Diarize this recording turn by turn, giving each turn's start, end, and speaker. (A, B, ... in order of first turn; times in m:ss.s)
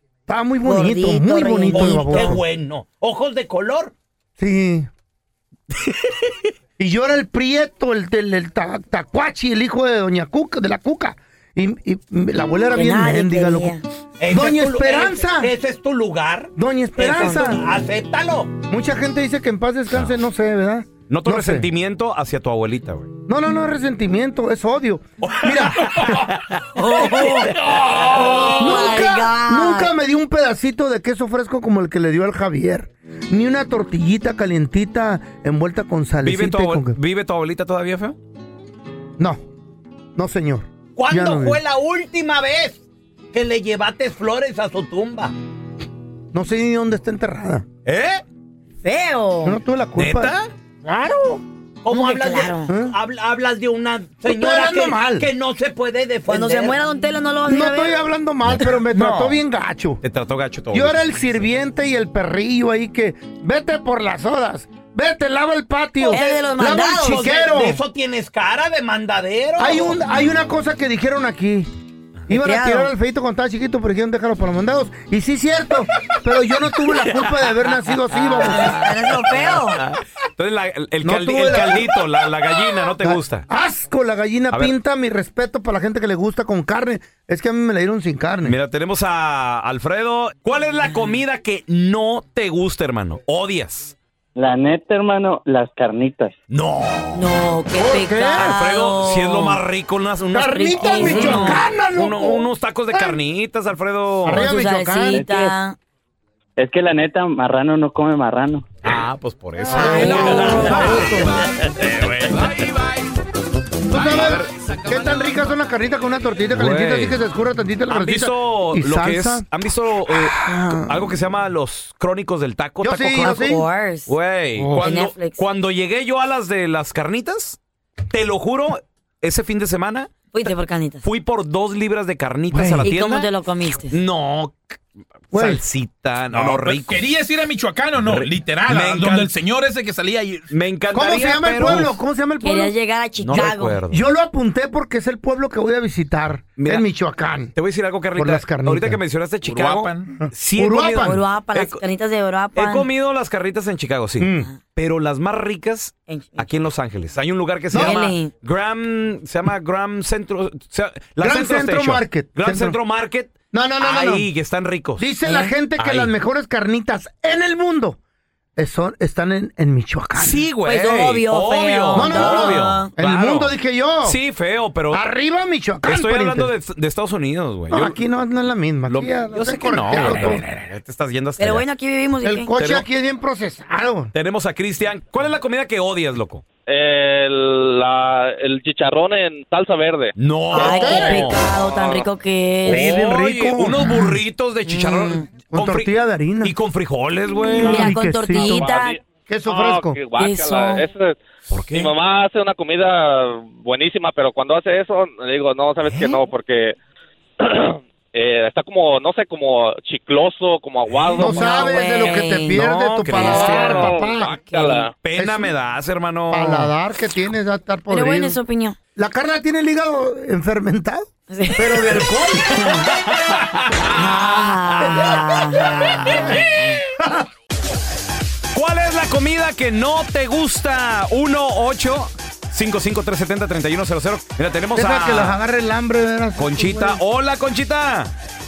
0:00.3-0:02.4 A
0:00.6-0:02.4 B
0:01.7-0:03.9 C
0:04.4-0:04.9 A
0:06.8-0:13.8 A
0:12.7-0:13.8 B
0:14.2-0:18.6 C
0:14.3-0:15.5 A
0:16.6-0:17.6 A
0:18.7-0:21.7 A
0:21.1-0:23.1 D
0:23.3-0:26.3 A
0:26.8-0:27.5 B
0:27.0-0:28.8 C
0:28.1-0:29.9 B
0:28.4-0:37.0 A
0:36.2-0:38.2 D
0:39.2-0:39.4 A
0:40.2-0:41.6 A
0:41.0-0:45.3 C
0:46.3-0:47.7 A
0:47.9-0:48.1 D
0:48.8-0:49.6 B
0:49.4-0:50.3 A
0:50.0-0:50.4 D
0:50.8-0:51.4 A
0:51.8-0:56.8 C
0:51.9-0:52.7 B
0:52.7-0:53.0 A
0:54.2-0:55.3 A
0:56.3-0:58.0 B
0:57.5-1:00.0 A
0:58.6-0:59.4 D
1:00.0-1:01.4 D
1:00.7-1:07.8 A
1:06.1-1:07.3 B
1:06.2-1:10.0 C
1:09.6-1:11.7 A
1:12.3-1:18.9 A
1:12.3-1:12.9 B
1:18.4-1:19.8 B
1:20.4-1:23.4 D
1:21.0-1:22.0 A
1:23.0-1:28.6 A
1:28.4-1:33.9 D
1:34.4-1:36.4 E
1:36.5-1:37.2 D
1:37.1-1:39.6 B
1:37.8-1:38.5 A
1:38.4-1:44.4 D
1:40.3-1:43.2 A
1:40.8-1:41.6 B
1:44.2-1:45.2 A
1:44.3-1:45.8 B
1:45.1-1:45.6 E
1:46.6-1:48.7 E
1:48.8-1:51.2 D
1:49.7-1:51.4 A
1:49.7-1:51.0 B
1:51.7-1:52.8 D
1:52.3-1:52.6 F
1:53.9-1:59.4 A
1:53.9-1:54.5 D
1:56.5-1:57.2 D
1:57.9-2:03.5 D
2:00.1-2:01.1 A
2:02.8-2:03.6 A
2:03.2-2:04.1 B
2:04.1-2:07.6 D
2:04.6-2:04.8 A
2:04.8-2:05.4 B
2:08.1-2:10.5 D
2:10.3-2:11.0 B
2:11.0-2:13.3 D
2:12.5-2:12.9 A
2:12.8-2:13.9 B
2:13.9-2:14.8 D
2:15.3-2:17.1 D
2:15.3-2:15.6 A
2:16.3-2:20.5 F
2:18.0-2:19.3 D
2:20.5-2:22.0 D
2:20.9-2:22.7 A
2:22.4-2:23.8 B
2:23.2-2:24.0 D
2:23.9-2:27.5 A
2:26.6-2:26.9 D
2:27.6-2:31.8 D
2:28.2-2:29.0 A
2:29.4-2:30.1 F
2:30.1-2:31.2 A
2:31.0-2:32.9 B
2:32.6-2:45.0 D
2:34.2-2:34.5 A
2:36.1-2:36.5 B
2:37.7-2:38.0 A
2:37.8-2:38.3 B
2:41.2-2:42.8 A
2:43.5-2:44.3 A
2:45.0-2:48.0 A
2:45.2-2:45.5 B
2:45.8-2:46.1 D
2:48.6-2:50.4 A
2:50.2-2:55.0 D
2:50.7-2:52.9 B
2:51.9-2:54.2 A
2:54.9-2:56.5 A
2:55.8-2:58.0 D
2:57.7-3:00.4 A
2:58.9-3:01.7 D
3:01.4-3:02.5 B
3:02.2-3:04.1 A
3:02.6-3:02.8 D
3:04.1-3:06.4 D
3:06.7-3:10.2 G
3:10.2-3:11.5 D
3:10.5-3:12.9 B
3:10.6-3:11.2 A
3:12.7-3:14.2 A
3:12.7-3:15.9 D
3:14.7-3:15.2 B
3:15.5-3:16.6 A
3:16.4-3:18.0 D
3:17.5-3:18.8 A
3:17.6-3:19.0 B
3:18.4-3:21.2 G
3:19.3-3:20.0 A
3:20.2-3:20.9 B
3:21.5-3:21.9 D
3:21.7-3:26.8 G
3:25.9-3:26.2 D
3:27.4-3:31.5 G
3:31.2-3:32.6 B
3:31.2-3:34.4 A
3:32.5-3:34.0 D
3:33.4-3:35.0 G
3:34.5-3:34.8 B
3:35.0-3:36.7 D
3:35.2-3:35.5 A
3:36.3-3:38.4 A
3:37.9-3:38.8 B
3:39.0-3:42.8 A
3:41.3-3:42.0 B
3:42.5-3:42.9 B
3:43.9-3:46.4 B
3:44.9-3:45.2 A
3:45.8-3:46.5 A
3:48.5-3:55.4 D
3:54.7-3:57.0 A
3:56.4-3:58.1 D